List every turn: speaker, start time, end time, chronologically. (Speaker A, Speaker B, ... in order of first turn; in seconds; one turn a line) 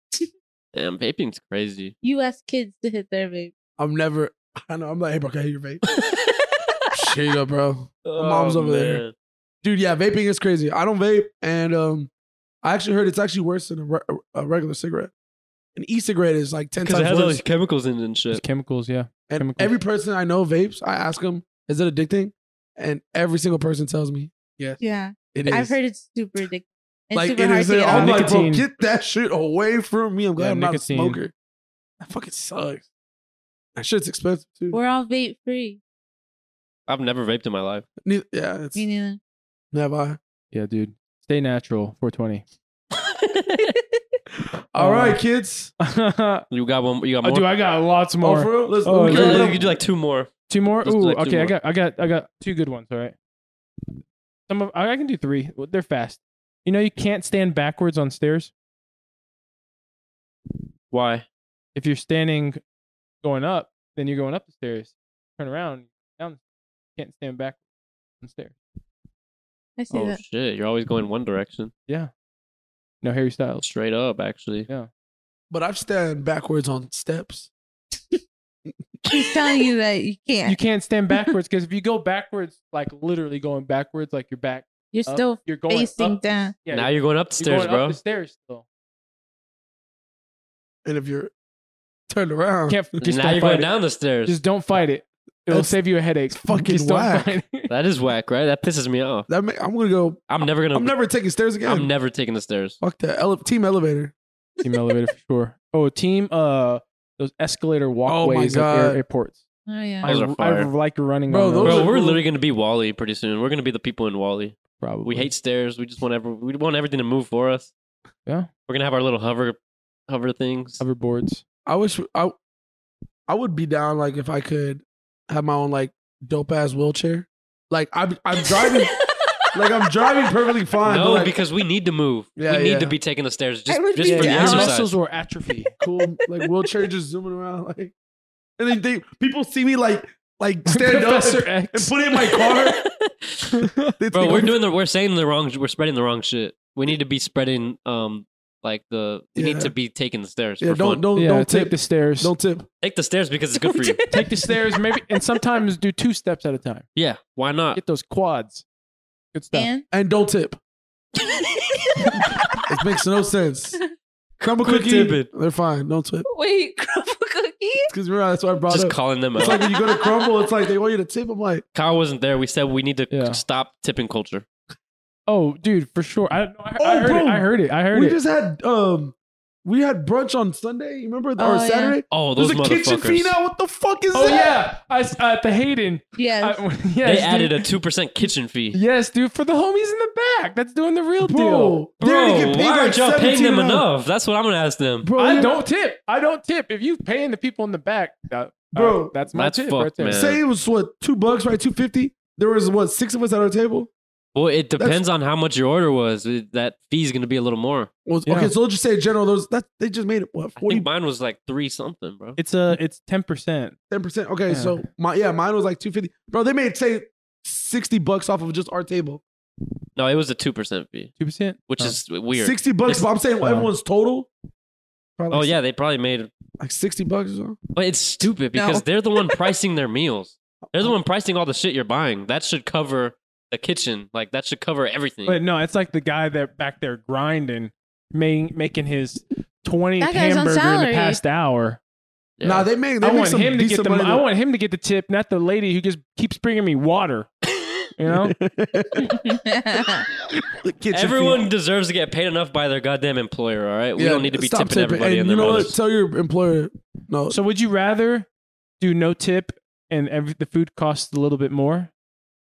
Speaker A: 0.7-1.9
Speaker B: 2.0-3.5
Speaker C: 3.8-5.8
Speaker C: 6.9-9.0
Speaker A: 8.0-9.1
Speaker C: 9.6-12.1
Speaker C: 12.6-15.1
Speaker C: 15.8-17.4
Speaker A: 16.8-18.4
Speaker D: 18.3-19.8
Speaker C: 19.3-24.8
Speaker B: 24.8-28.1
Speaker C: 25.3-25.8
Speaker C: 27.1-31.3
Speaker D: 27.9-28.6
Speaker D: 30.4-31.2
Speaker C: 32.0-32.9
Speaker C: 33.8-34.8
Speaker B: 34.7-35.8
Speaker A: 36.9-37.8
Speaker C: 38.0-38.8
Speaker B: 38.7-39.2
Speaker C: 39.7-40.2
Speaker D: 40.5-42.4
Speaker A: 43.2-43.7
Speaker C: 44.7-45.7
Speaker D: 44.8-45.2
Speaker D: 45.8-46.4
Speaker A: 46.5-47.5
Speaker D: 47.2-49.6
Speaker C: 48.2-49.7
Speaker A: 49.0-50.3
Speaker D: 50.5-53.1
Speaker A: 50.8-51.5
Speaker D: 54.5-58.5
Speaker A: 60.9-61.2
Speaker D: 61.7-62.6
Speaker D: 63.2-66.4
Speaker D: 67.0-67.6
Speaker D: 68.2-68.5
Speaker B: 69.8-70.2
Speaker A: 69.9-71.7
Speaker D: 73.0-73.6
Speaker A: 73.6-74.7
Speaker C: 75.5-77.5
Speaker B: 79.1-80.6
Speaker D: 80.4-88.6
Speaker B: 84.9-86.5
Speaker A: 86.7-88.0
Speaker C: 90.8-91.3
Speaker C: 92.1-92.8
Speaker D: 92.7-93.7
Speaker A: 93.0-94.4
Speaker D: 94.2-97.7
Speaker C: 95.5-95.8
Speaker C: 96.3-97.3
Speaker A: 97.7-99.3
Speaker C: 99.3-101.9
Speaker A: 100.3-100.9
Speaker A: 101.6-102.8
Speaker C: 102.8-104.1
Speaker D: 104.6-109.4
Speaker C: 108.0-109.0
Speaker B: 109.7-110.1
Speaker D: 110.0-111.9
Speaker A: 110.0-110.7
Speaker C: 111.3-112.2
Speaker A: 111.6-117.7
Speaker D: 114.8-115.3
Speaker A: 118.7-120.8
Speaker D: 120.8-121.4
Speaker C: 121.7-122.3
Speaker C: 123.3-128.9
Speaker C: 129.5-131.3
Speaker A: 130.8-135.0
Speaker C: 132.3-132.9
Speaker B: 133.7-134.7
Speaker D: 134.0-135.7
Speaker C: 135.8-137.9
Speaker C: 138.6-142.8
Speaker D: 140.7-141.9
Speaker A: 143.0-143.5
Speaker D: 143.6-144.4
Speaker C: 144.0-144.6
Speaker A: 144.1-151.0
Speaker C: 149.3-149.7
Speaker C: 150.6-152.7
Speaker D: 151.2-152.3
Speaker A: 152.8-154.0
Speaker B: 153.6-154.2
Speaker D: 154.1-156.8
Speaker A: 156.9-157.8
Speaker D: 157.7-158.6
Speaker D: 159.3-159.7
Speaker B: 159.5-159.8
Speaker C: 159.9-160.6
Speaker A: 161.2-162.3
Speaker C: 162.7-163.8
Speaker C: 164.4-166.2
Speaker A: 164.6-165.3
Speaker B: 166.3-167.9
Speaker C: 167.9-171.6
Speaker A: 168.7-169.6
Speaker B: 169.4-170.2
Speaker A: 171.7-174.4
Speaker D: 173.1-173.4
Speaker D: 175.3-178.2
Speaker C: 176.8-184.6
Speaker B: 181.4-182.0
Speaker A: 182.1-183.4
Speaker D: 184.1-187.6
Speaker B: 186.2-186.6
Speaker A: 187.0-188.8
Speaker D: 188.7-191.8
Speaker C: 191.2-193.8
Speaker A: 192.0-195.1
Speaker C: 195.0-195.6
Speaker D: 195.2-200.3
Speaker C: 198.7-199.2
Speaker A: 199.3-200.4
Speaker C: 200.1-203.9
Speaker A: 204.3-207.9
Speaker C: 208.1-210.9
Speaker D: 208.2-208.5
Speaker A: 210.6-212.4
Speaker D: 212.4-213.8
Speaker C: 213.9-219.2
Speaker D: 214.5-214.8
Speaker A: 219.9-221.1
Speaker D: 221.2-222.0
Speaker A: 221.7-223.1
Speaker C: 222.3-224.3
Speaker D: 223.4-223.7
Speaker C: 225.2-225.6
Speaker A: 225.3-226.3
Speaker C: 226.6-227.6
Speaker A: 227.7-235.4
Speaker B: 228.5-229.4
Speaker D: 235.2-241.8
Speaker B: 240.0-241.2
Speaker A: 242.4-242.7
Speaker C: 242.4-244.2
Speaker D: 243.0-247.3
Speaker D: 247.9-248.3
Speaker C: 248.1-249.2
Speaker B: 249.0-250.0
Speaker C: 250.5-251.5
Speaker A: 250.9-255.7
Speaker C: 254.0-257.4
Speaker D: 257.3-258.3
Speaker D: 258.8-261.9